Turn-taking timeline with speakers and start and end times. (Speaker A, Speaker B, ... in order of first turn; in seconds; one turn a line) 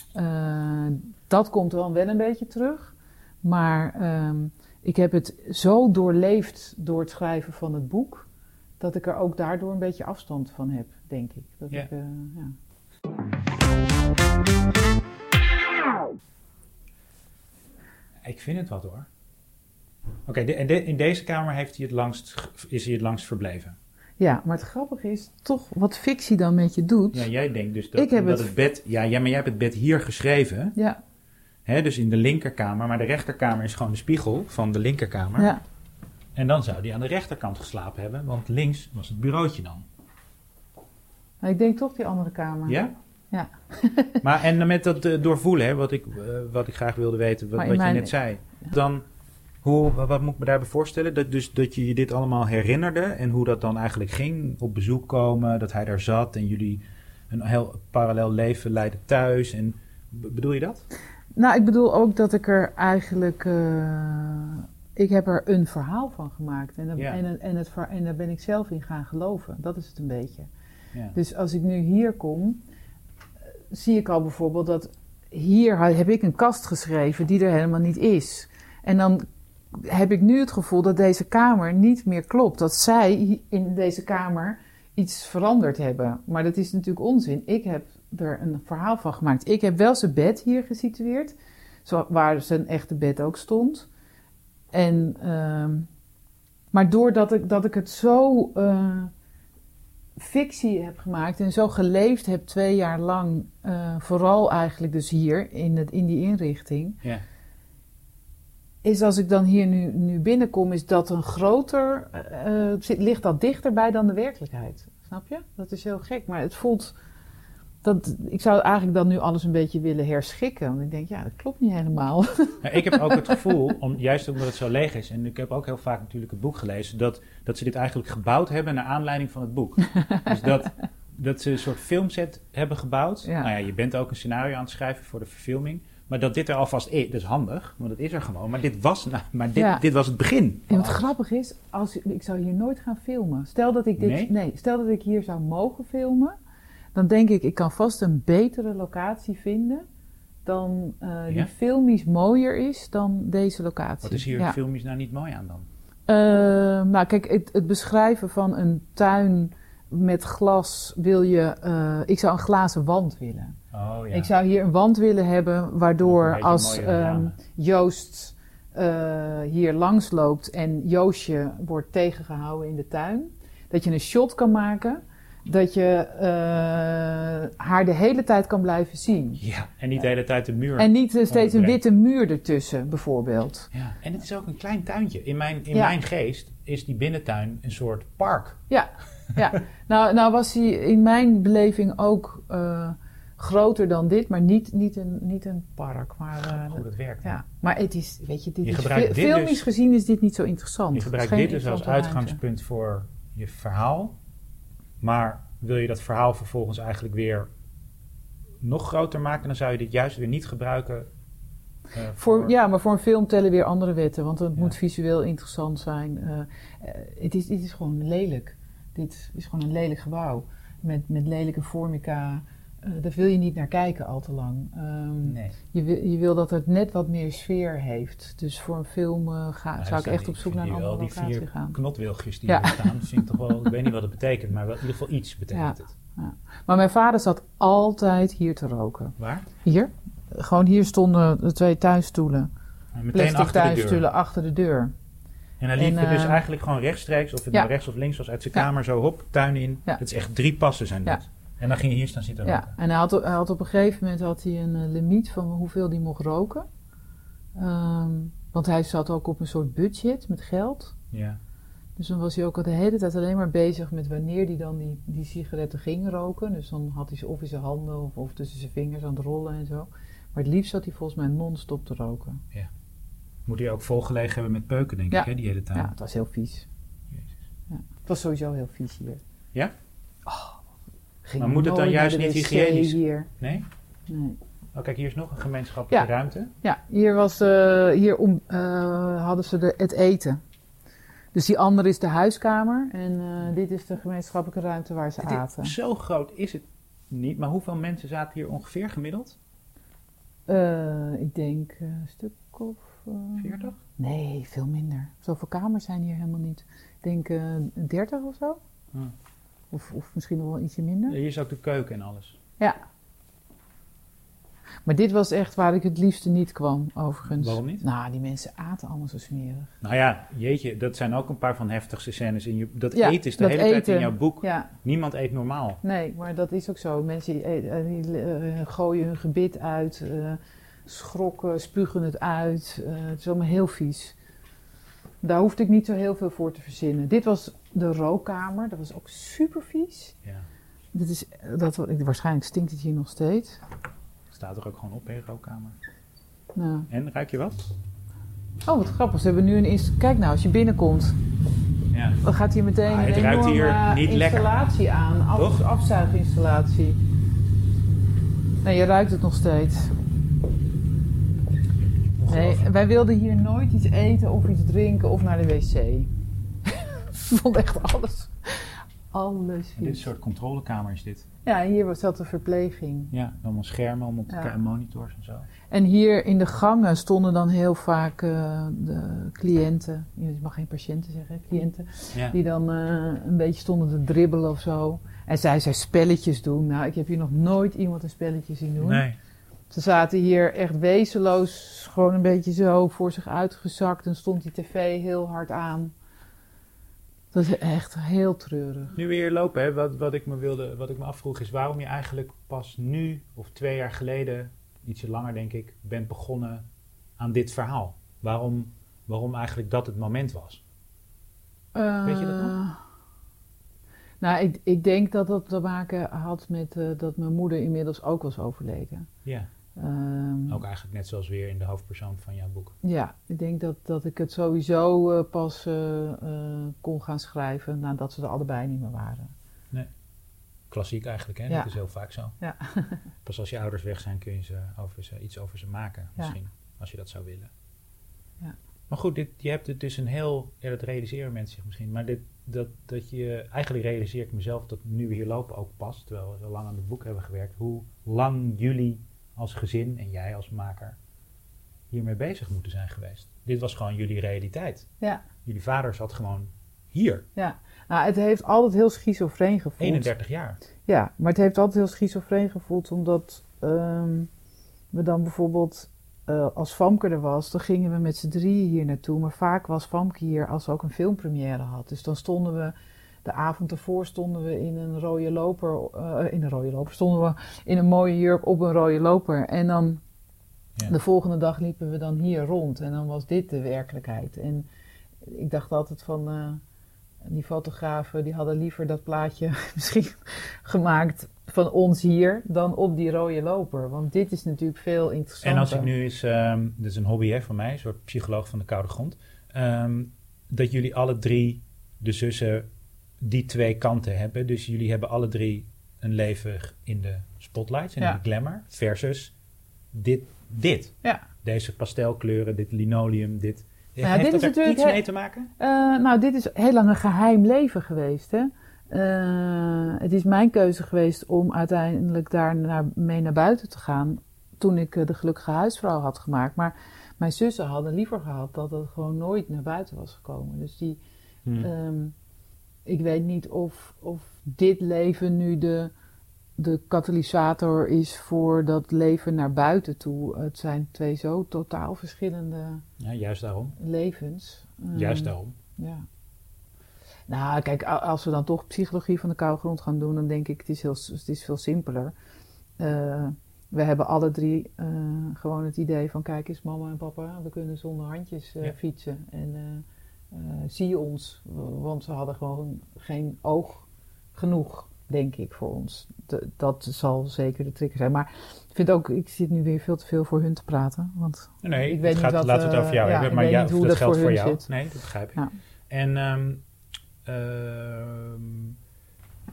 Speaker A: 0.1-8.3
Speaker A: 8.8-12.6
Speaker B: 18.2-19.1
Speaker B: 20.2-23.8
Speaker A: 24.2-27.3
Speaker B: 27.1-30.8
Speaker A: 27.9-28.5
Speaker B: 31.6-35.5
Speaker A: 35.4-35.6
Speaker B: 36.4-39.9
Speaker A: 41.4-42.8
Speaker B: 42.7-42.9
Speaker A: 43.3-44.2
Speaker B: 44.2-49.0
Speaker A: 47.6-48.1
Speaker B: 49.6-60.9
Speaker A: 61.4-70.5
Speaker A: 71.1-72.6
Speaker A: 73.7-91.3
Speaker A: 91.8-93.9
Speaker A: 94.7-95.9
Speaker A: 96.7-99.1
Speaker A: 100.2-107.0
Speaker A: 108.8-116.9
Speaker A: 117.8-123.5
Speaker B: 122.6-141.1
Speaker A: 130.0-130.3
Speaker A: 133.2-133.5
Speaker A: 139.6-139.8
Speaker A: 140.7-146.4
Speaker B: 144.0-144.3
Speaker A: 146.9-149.8
Speaker A: 150.4-154.6
Speaker B: 154.0-155.7
Speaker A: 156.1-163.5
Speaker B: 163.7-164.3
Speaker A: 164.1-179.4
Speaker B: 166.0-167.3
Speaker B: 179.4-181.8
Speaker A: 180.8-183.7
Speaker B: 183.7-188.6
Speaker A: 188.7-202.4
Speaker B: 196.5-197.4
Speaker B: 198.6-199.6
Speaker B: 200.9-204.2
Speaker B: 205.0-207.5
Speaker B: 208.6-211.1
Speaker B: 211.9-212.5
Speaker A: 212.2-231.8
Speaker B: 225.2-225.6
Speaker B: 229.8-235.9
Speaker A: 232.5-233.7
Speaker A: 235.5-242.5
Speaker B: 239.2-239.4
Speaker B: 242.9-244.0
Speaker A: 243.1-244.9
Speaker B: 245.6-252.7
Speaker A: 245.8-246.4
Speaker A: 252.4-256.7
Speaker A: 257.6-260.9
Speaker B: 261.1-261.4
Speaker A: 262.0-272.4
Speaker B: 273.4-275.9
Speaker A: 275.1-276.7
Speaker A: 277.7-279.2
Speaker A: 280.2-280.6
Speaker A: 281.2-283.3
Speaker B: 281.4-283.6
Speaker A: 284.1-284.4
Speaker B: 284.7-286.5
Speaker A: 286.6-290.4
Speaker A: 291.3-295.7
Speaker B: 295.2-299.4
Speaker A: 300.5-308.6
Speaker B: 303.4-303.8
Speaker A: 309.7-311.2
Speaker B: 311.1-312.4
Speaker A: 314.9-319.7
Speaker B: 317.3-317.8
Speaker B: 319.8-325.8
Speaker A: 322.9-324.7
Speaker A: 325.8-334.1
Speaker A: 335.2-340.1
Speaker A: 340.9-343.6
Speaker B: 344.3-345.8
Speaker A: 346.5-346.9
Speaker B: 346.9-347.6
Speaker A: 348.6-351.1
Speaker B: 351.9-352.2
Speaker A: 352.2-357.0
Speaker B: 352.9-354.5
Speaker B: 355.4-355.6
Speaker A: 358.6-359.9
Speaker B: 362.2-362.7
Speaker A: 362.3-366.1
Speaker A: 366.6-370.1
Speaker B: 369.8-371.3
Speaker A: 371.4-373.1
Speaker B: 373.1-375.5
Speaker A: 375.7-389.0
Speaker B: 388.8-389.1
Speaker A: 389.7-395.9
Speaker A: 397.3-398.9
Speaker B: 398.9-406.6
Speaker B: 407.2-410.6
Speaker A: 411.7-412.8
Speaker B: 412.1-412.5
Speaker A: 414.2-419.1
Speaker A: 419.8-420.6
Speaker B: 420.5-422.8
Speaker A: 422.8-429.3
Speaker B: 430.7-432.4
Speaker A: 432.4-433.0
Speaker B: 433.2-437.5
Speaker B: 438.9-450.9
Speaker B: 451.9-454.9
Speaker B: 455.4-457.2
Speaker A: 457.4-460.1
Speaker B: 459.8-460.6
Speaker A: 460.9-464.3
Speaker A: 464.9-480.0
Speaker A: 480.9-484.7
Speaker A: 485.2-486.6
Speaker A: 487.2-495.9
Speaker B: 495.4-502.7
Speaker B: 503.2-509.3
Speaker B: 509.9-515.5
Speaker A: 514.0-515.0
Speaker A: 515.6-531.0
Speaker A: 531.6-532.1
Speaker A: 532.9-535.9
Speaker A: 536.6-542.8
Speaker B: 543.0-543.8
Speaker A: 543.8-546.0
Speaker B: 544.9-545.5
Speaker A: 547.3-552.1
Speaker A: 552.8-574.7
Speaker B: 571.6-576.6
Speaker B: 577.3-578.7